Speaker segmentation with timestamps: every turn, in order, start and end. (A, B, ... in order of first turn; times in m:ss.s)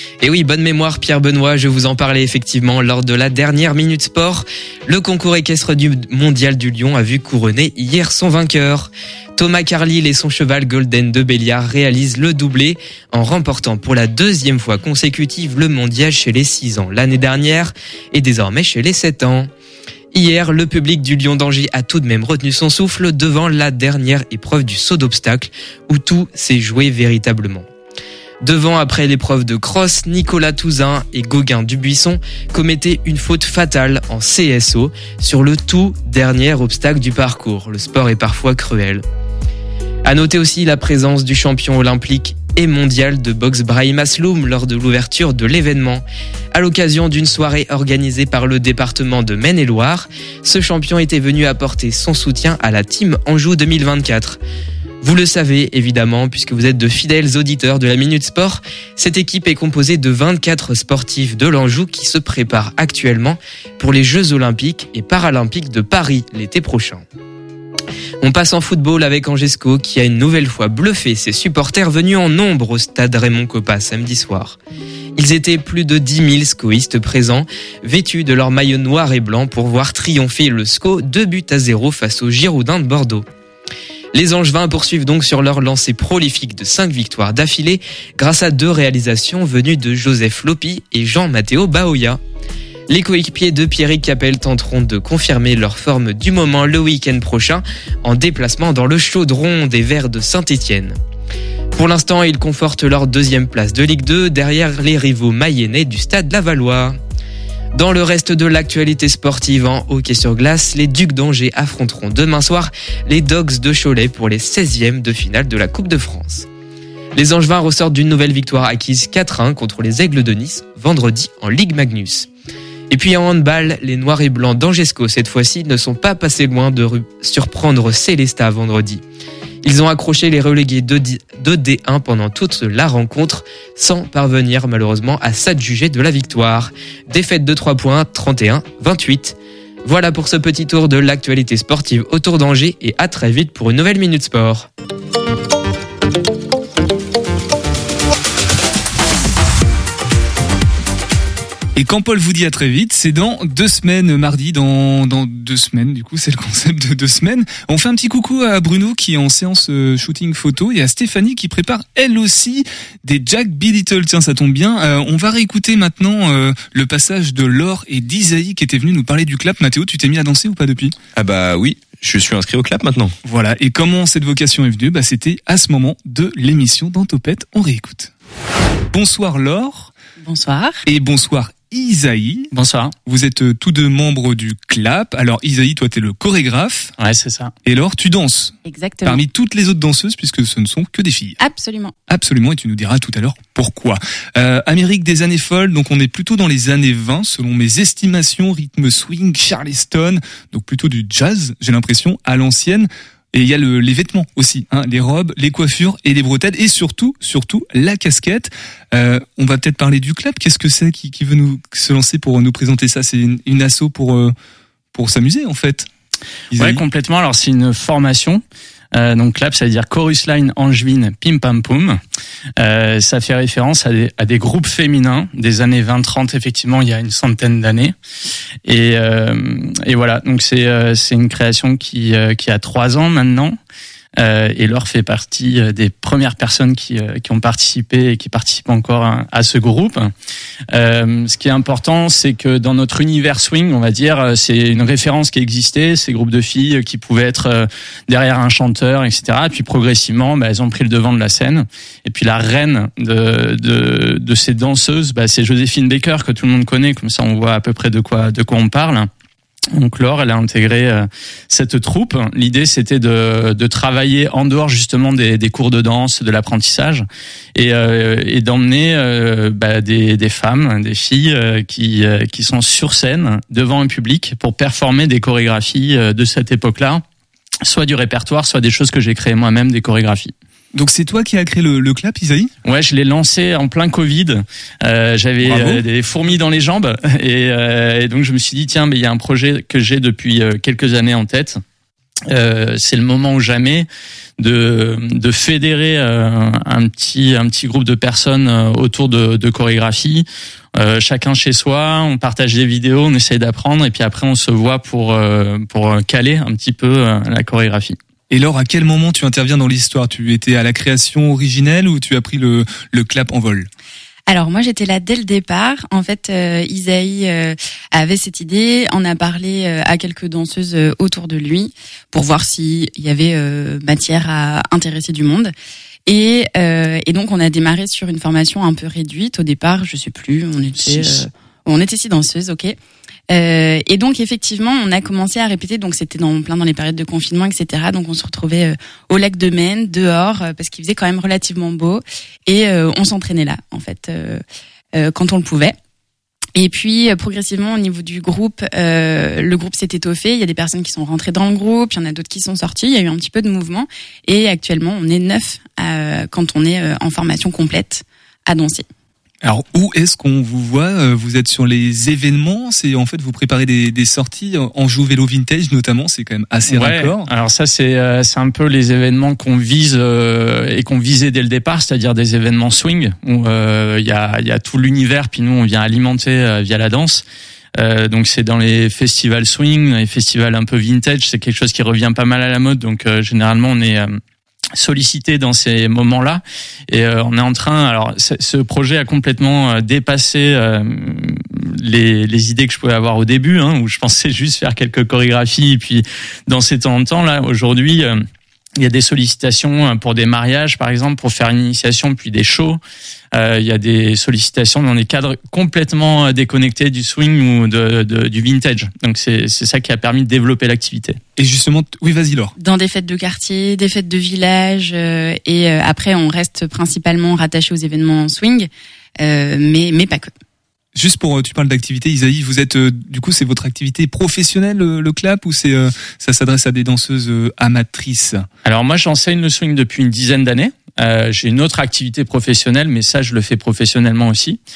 0:00.2-0:19.5 A
0:20.1-0:27.7 A
0:28.4-0:39.0 A
0:40.0-0:54.4 A
0:55.0-1:07.0 A
1:08.2-1:14.6 A
1:15.2-1:23.3 A
1:24.1-1:32.2 A
1:32.9-1:41.0 A
1:41.7-1:47.0 A
1:47.7-1:56.4 A
1:57.1-2:02.3 A
2:02.9-2:09.0 A
2:09.6-2:24.7 A
2:31.7-2:50.9 B
2:51.2-2:53.1 C
2:53.2-2:58.1 B
2:58.9-2:59.9 B
3:00.2-3:00.8 D
3:00.8-3:02.5 B
3:02.5-3:02.9 E
3:03.0-3:06.9 B
3:07.0-3:07.5 E
3:07.6-3:11.4 B
3:08.6-3:09.2 D
3:11.4-3:11.9 D
3:12.1-3:34.3 B
3:34.9-3:35.9 B
3:36.5-3:36.8 B
3:36.5-3:38.4 E
3:38.9-3:42.0 E
3:42.6-3:47.9 E
3:48.6-3:53.6 E
3:54.2-4:00.1 E
4:00.7-4:19.1 E
4:19.7-4:37.0 E
4:37.6-4:40.3 E
4:40.7-4:42.5 B
4:42.6-4:51.6 E
4:45.4-4:45.8 B
4:52.3-4:53.9 E
4:54.4-5:08.0 E
5:08.3-5:13.7 B
5:14.3-5:25.5 D
5:26.1-5:32.8 D
5:30.8-5:31.2 B
5:33.3-5:44.4 D
5:45.0-5:45.7 D
5:46.5-5:58.8 D
5:59.4-6:07.3 B
6:06.7-6:17.2 E
6:17.8-6:24.1 E
6:24.8-6:38.2 E
6:38.8-6:42.8 E
6:43.3-6:51.2 E
6:51.4-6:52.5 B
6:52.6-6:58.7 D
6:59.2-7:00.3 D
7:00.9-7:08.4 B
7:08.6-7:14.6 E